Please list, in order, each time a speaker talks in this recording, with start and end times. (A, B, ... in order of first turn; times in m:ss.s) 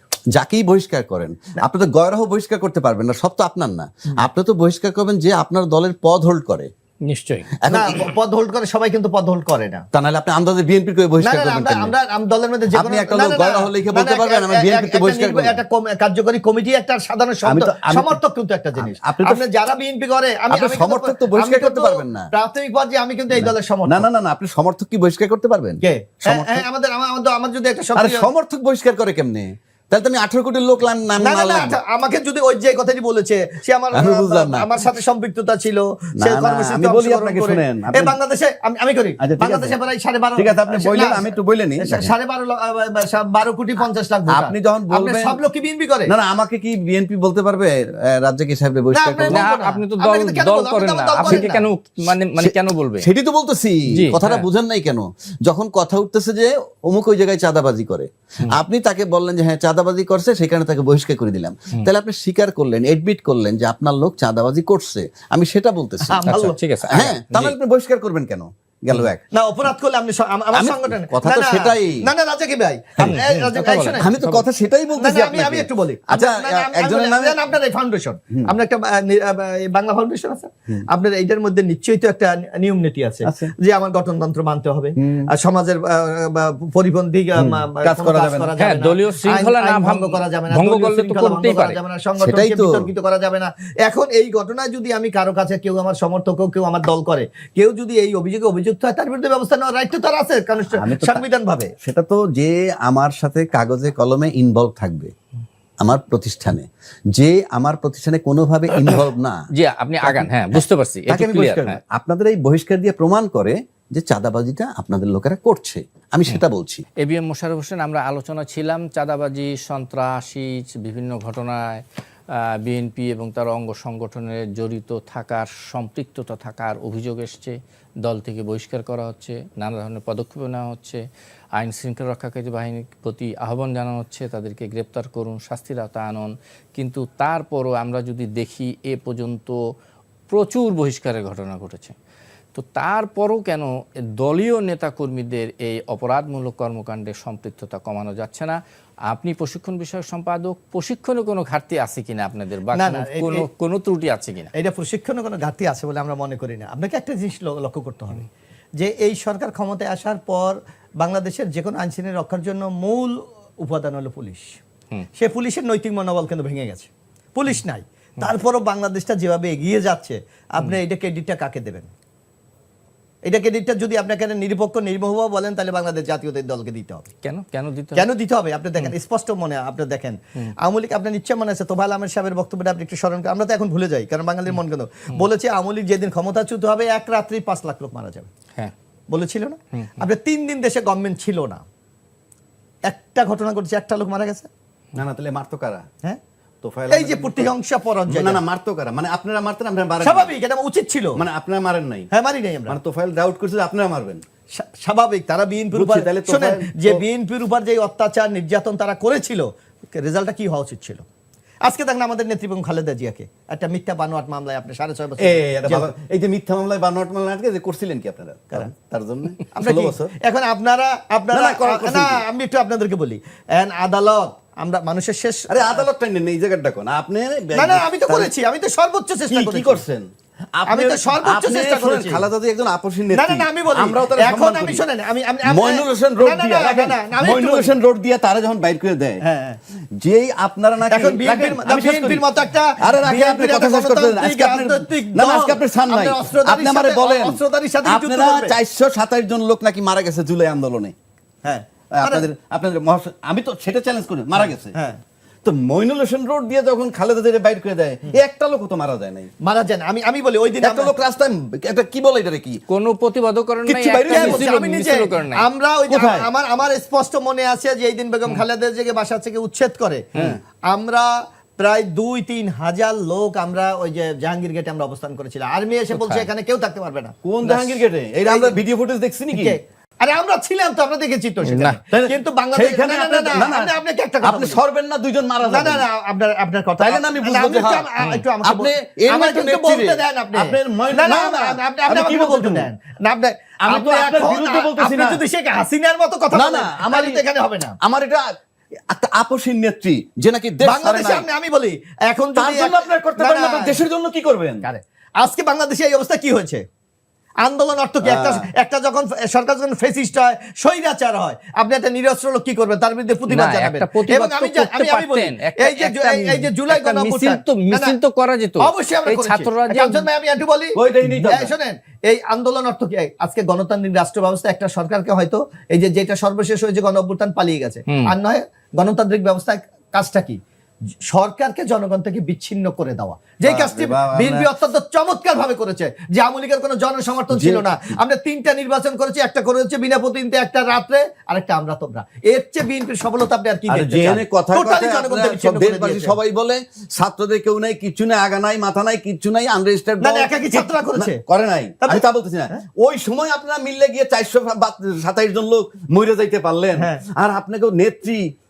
0:00.4-0:06.7 A
0:07.1-0:07.5 B
0:07.6-0:08.1 A
0:07.7-0:09.8 C
0:09.9-0:11.9 A
0:11.2-0:24.1 C
0:12.7-0:15.6 A
0:17.4-0:18.2 A
0:18.8-0:19.4 A
0:20.5-0:22.3 A
0:23.3-0:26.6 A
0:25.8-0:28.3 C
0:28.0-0:31.8 A
0:31.2-0:41.3 C
0:33.9-0:34.7 A
0:36.2-0:38.2 A
0:39.2-0:39.8 A
0:40.4-0:42.1 A
0:41.8-0:46.1 C
0:44.3-0:45.4 A
0:46.1-0:49.4 A
0:48.9-0:51.7 C
0:49.3-0:53.1 B
0:51.2-0:51.5 A
0:52.4-1:06.4 A
0:54.0-0:54.5 B
1:06.1-1:06.6 C
1:06.3-1:07.5 B
1:06.9-1:09.2 A
1:09.3-1:14.1 C
1:10.5-1:12.0 A
1:13.0-1:14.4 B
1:14.0-1:17.4 A
1:15.0-1:41.7 C
1:23.2-1:23.5 A
1:25.0-1:25.3 A
1:27.4-1:28.5 A
1:28.6-1:31.8 B
1:32.2-1:32.9 A
1:40.7-1:41.3 A
1:41.8-1:45.1 A
1:45.8-1:49.4 A
1:49.6-1:51.8 B
1:50.0-1:56.8 A
1:57.0-2:01.8 B
2:02.6-2:11.0 B
2:11.6-2:19.6 B
2:20.3-2:22.0 B
2:22.6-2:28.6 B
2:29.1-2:34.5 B
2:32.8-2:33.5 C
2:34.6-2:38.3 C
2:38.8-2:44.6 C
2:45.2-2:51.9 C
2:53.2-2:57.1 C
2:57.2-2:58.1 B
2:58.0-3:08.3 C
3:09.1-3:11.6 C
3:09.8-3:10.0 B
3:12.9-3:14.5 C
3:15.0-3:15.9 A
3:16.6-3:17.5 A
3:16.9-3:18.4 C
3:18.1-3:20.3 A
3:20.0-3:21.2 C
3:21.2-3:22.1 A
3:22.1-3:22.8 C
3:22.7-3:24.2 A
3:24.6-3:31.0 C
3:25.7-3:27.0 A
3:31.7-3:35.9 C
3:35.2-3:40.1 A
3:39.5-3:45.9 C
3:41.3-3:42.2 A
3:45.5-3:48.3 A
3:47.6-3:49.8 C
3:49.3-3:54.8 A
3:50.7-3:52.3 C
3:53.1-3:57.7 C
3:55.4-3:59.2 A
3:59.2-3:59.6 C
4:00.0-4:02.3 A
4:00.9-4:08.6 C
4:02.8-4:11.0 A
4:11.4-4:12.3 C
4:11.9-4:14.7 A
4:14.7-4:15.0 C
4:15.4-4:19.3 A
4:19.4-4:20.9 C
4:20.6-4:22.6 A
4:22.7-4:25.5 B
4:23.6-4:24.5 A
4:24.1-4:30.1 C
4:25.9-4:26.3 A
4:30.2-4:30.4 A
4:30.7-4:38.6 C
4:35.9-4:36.3 B
4:37.2-4:39.6 A
4:39.3-4:44.6 C
4:41.4-4:41.8 B
4:41.9-4:45.8 A
4:45.4-4:57.8 C
4:46.8-4:47.9 A
4:48.4-4:52.7 A
4:53.6-4:55.2 A
4:56.3-4:57.2 A
4:57.8-4:58.2 A
4:58.9-5:01.3 A
5:00.6-5:03.8 C
5:02.4-5:04.6 A
5:04.6-5:06.6 C
5:07.4-5:18.0 C
5:08.0-5:08.4 A
5:13.3-5:20.1 B
5:18.6-5:30.4 C
5:20.8-5:21.5 A
5:31.1-5:46.2 C
5:33.4-5:34.5 A
5:37.3-5:37.7 A
5:43.7-5:58.3 A
5:50.0-5:51.2 C
5:51.8-5:52.6 C
5:56.8-5:57.0 C